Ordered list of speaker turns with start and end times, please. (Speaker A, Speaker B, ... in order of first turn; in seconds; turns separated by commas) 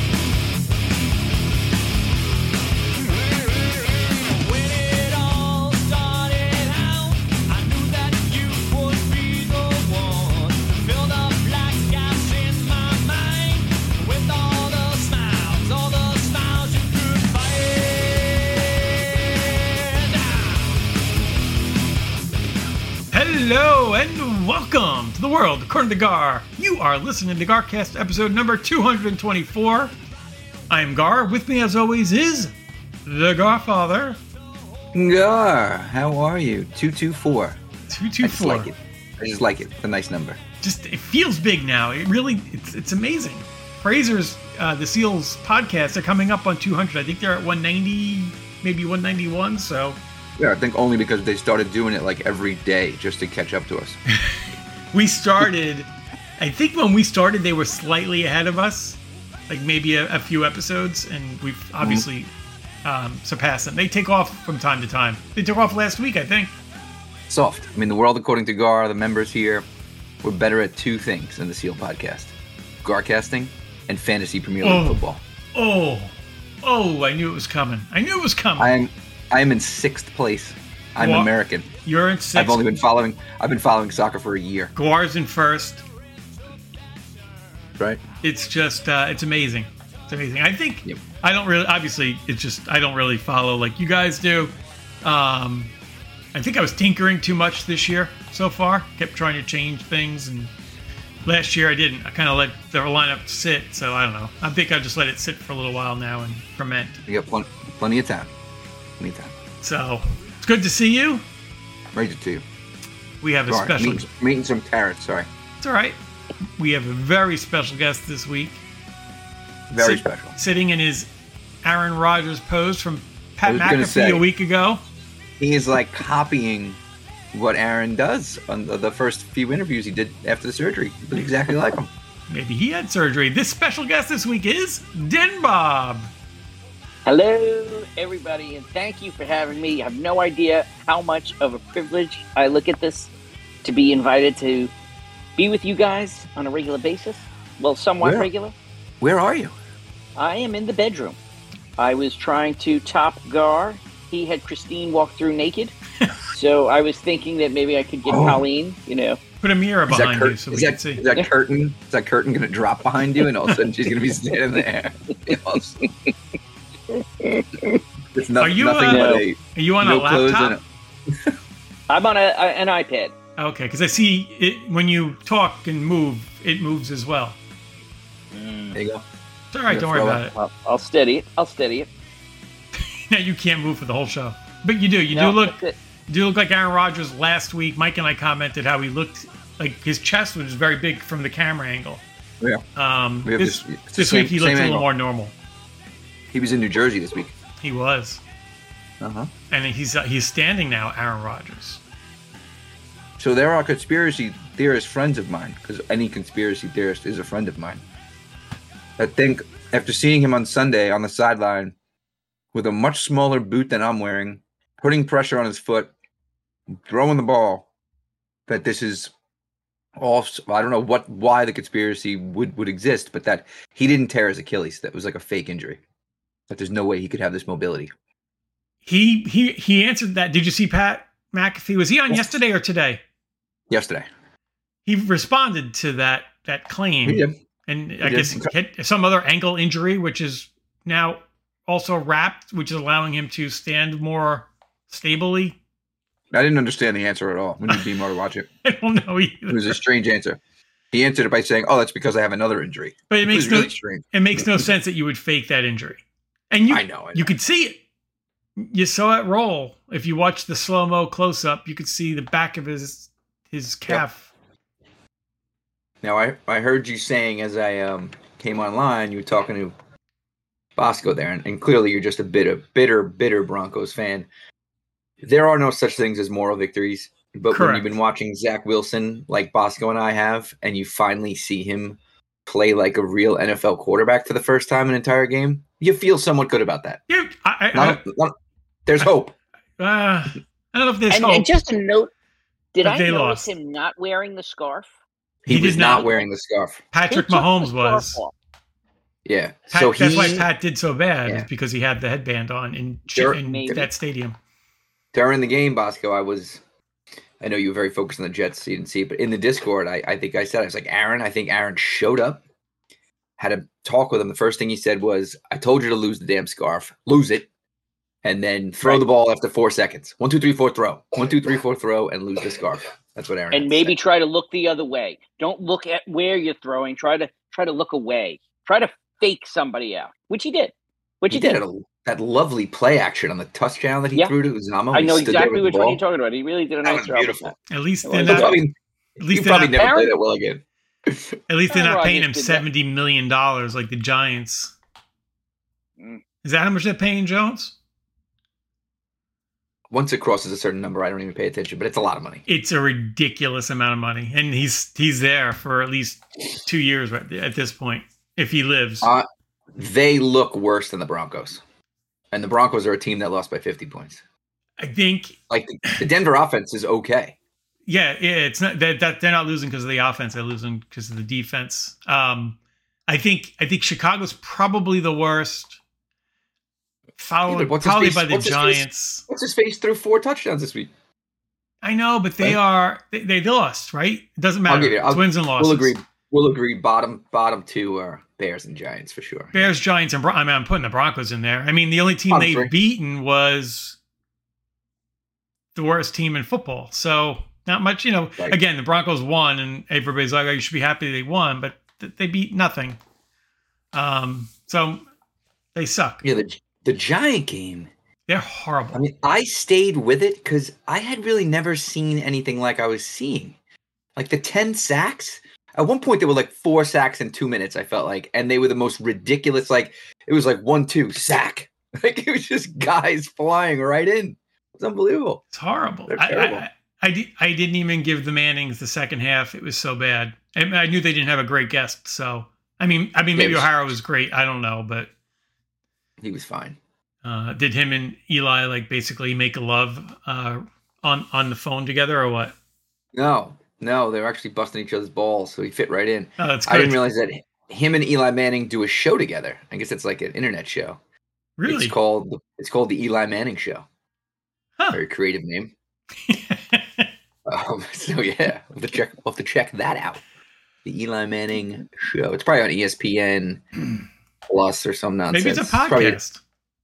Speaker A: 4.1-18.7, Speaker A: 19.7-20.5, Speaker B: 23.1-29.9, Speaker B: 30.7-32.5, Speaker B: 33.0-34.2, Speaker C: 34.9-37.6, Speaker B: 37.9-38.7, Speaker C: 38.2-40.4, Speaker B: 40.6-50.0, Speaker C: 50.4-54.0, Speaker B: 54.1-54.4, Speaker B: 54.9-62.3, Speaker C: 61.8-62.0, Speaker B: 62.8-66.5, Speaker C: 67.3-69.7, Speaker C: 70.2-75.2, Speaker B: 74.6-75.0, Speaker B: 75.5-76.1, Speaker B: 76.6-78.7, Speaker C: 78.6-81.7, Speaker B: 81.0-81.3, Speaker B: 81.8-82.7, Speaker C: 82.3-84.7, Speaker B: 84.8-85.8, Speaker B: 88.2-94.5, Speaker B: 95.0-95.7, Speaker B: 96.3-100.5, Speaker B: 101.2-107.0, Speaker C: 107.1-108.3, Speaker C: 109.0-109.3, Speaker B: 109.6-111.2, Speaker C: 111.9-112.4, Speaker B: 113.2-114.0, Speaker C: 113.5-115.3, Speaker B: 115.6-116.0, Speaker B: 116.6-118.6, Speaker C: 119.7-120.3, Speaker B: 119.7-121.1, Speaker B: 121.6-124.8, Speaker C: 123.5-124.2, Speaker C: 125.4-126.8, Speaker C: 127.3-131.9, Speaker B: 132.3-136.1, Speaker D: 137.1-143.1, Speaker D: 143.6-144.7, Speaker D: 145.4-148.5, Speaker C: 148.0-148.3, Speaker C: 149.0-149.5, Speaker D: 150.2-151.2, Speaker D: 151.8-155.7, Speaker D: 156.3-159.2, Speaker C: 158.1-158.4, Speaker B: 159.4-161.1, Speaker C: 159.9-166.1, Speaker C: 167.2-171.3, Speaker B: 168.4-170.6, Speaker D: 168.9-169.2, Speaker D: 171.9-173.2, Speaker B: 173.4-177.4, Speaker D: 178.3-178.8, Speaker C: 178.7-179.0, Speaker B: 179.5-180.3, Speaker C: 179.7-180.2, Speaker D: 180.3-181.9, Speaker B: 182.8-192.0, Speaker D: 185.1-185.8, Speaker B: 192.8-195.3, Speaker C: 193.2-194.8, Speaker C: 196.3-197.3, Speaker B: 197.6-198.2, Speaker C: 199.0-199.3, Speaker B: 199.5-201.8, Speaker C: 203.2-207.8, Speaker C: 209.0-211.7, Speaker C: 212.5-215.9, Speaker C: 216.7-217.7, Speaker C: 218.5-219.1, Speaker C: 220.0-225.8, Speaker C: 226.5-227.9, Speaker B: 228.8-233.0, Speaker C: 232.1-232.4, Speaker C: 233.7-234.1, Speaker B: 234.9-245.6, Speaker C: 237.0-237.3, Speaker C: 238.0-238.5, Speaker C: 246.3-248.5, Speaker B: 248.6-249.8, Speaker C: 249.5-250.4, Speaker C: 250.9-254.7, Speaker B: 253.1-257.8, Speaker C: 256.7-257.3, Speaker B: 258.6-264.3, Speaker C: 266.0-269.7, Speaker C: 270.8-274.3, Speaker C: 275.2-287.0, Speaker B: 277.5-277.9, Speaker B: 287.1-288.0, Speaker C: 287.7-289.3, Speaker B: 289.8-291.5, Speaker D: 291.1-292.1, Speaker D: 292.7-294.9, Speaker B: 292.8-293.5, Speaker C: 295.4-296.8, Speaker B: 295.5-296.1, Speaker B: 296.9-298.2, Speaker D: 297.1-298.3, Speaker C: 299.2-300.5, Speaker B: 299.7-304.4, Speaker C: 303.1-303.9, Speaker D: 303.4-303.8, Speaker C: 305.1-306.6, Speaker C: 307.4-312.4, Speaker C: 313.4-317.5, Speaker C: 318.2-323.9, Speaker D: 323.5-331.6, Speaker C: 331.3-336.0, Speaker D: 334.9-337.5, Speaker C: 336.8-337.6, Speaker B: 337.7-338.6, Speaker D: 338.0-338.6, Speaker C: 338.2-341.3, Speaker B: 339.2-339.9, Speaker D: 339.8-340.1, Speaker B: 341.5-344.7, Speaker D: 341.7-342.6, Speaker B: 346.4-347.7, Speaker C: 349.9-352.4, Speaker B: 352.5-359.1, Speaker C: 359.0-361.6, Speaker C: 362.3-364.2, Speaker B: 364.8-365.3, Speaker C: 365.5-367.4, Speaker B: 367.9-375.8, Speaker B: 377.2-379.2, Speaker C: 377.4-380.9, Speaker B: 381.8-385.9, Speaker C: 384.7-389.7, Speaker B: 389.5-394.0, Speaker C: 392.3-392.7, Speaker B: 395.7-403.0, Speaker B: 403.9-405.1, Speaker B: 405.7-406.2, Speaker C: 406.2-407.9, Speaker B: 408.3-409.0, Speaker C: 408.9-413.6, Speaker C: 414.1-425.4, Speaker B: 425.5-435.1, Speaker C: 426.1-426.6, Speaker C: 433.3-433.7, Speaker C: 436.2-436.8, Speaker B: 437.2-442.5, Speaker C: 443.1-451.0, Speaker B: 446.4-447.0, Speaker B: 451.6-451.9, Speaker C: 451.6-453.8, Speaker C: 454.9-455.7, Speaker B: 456.3-457.1, Speaker C: 457.4-460.2, Speaker C: 460.8-466.2, Speaker B: 465.3-466.4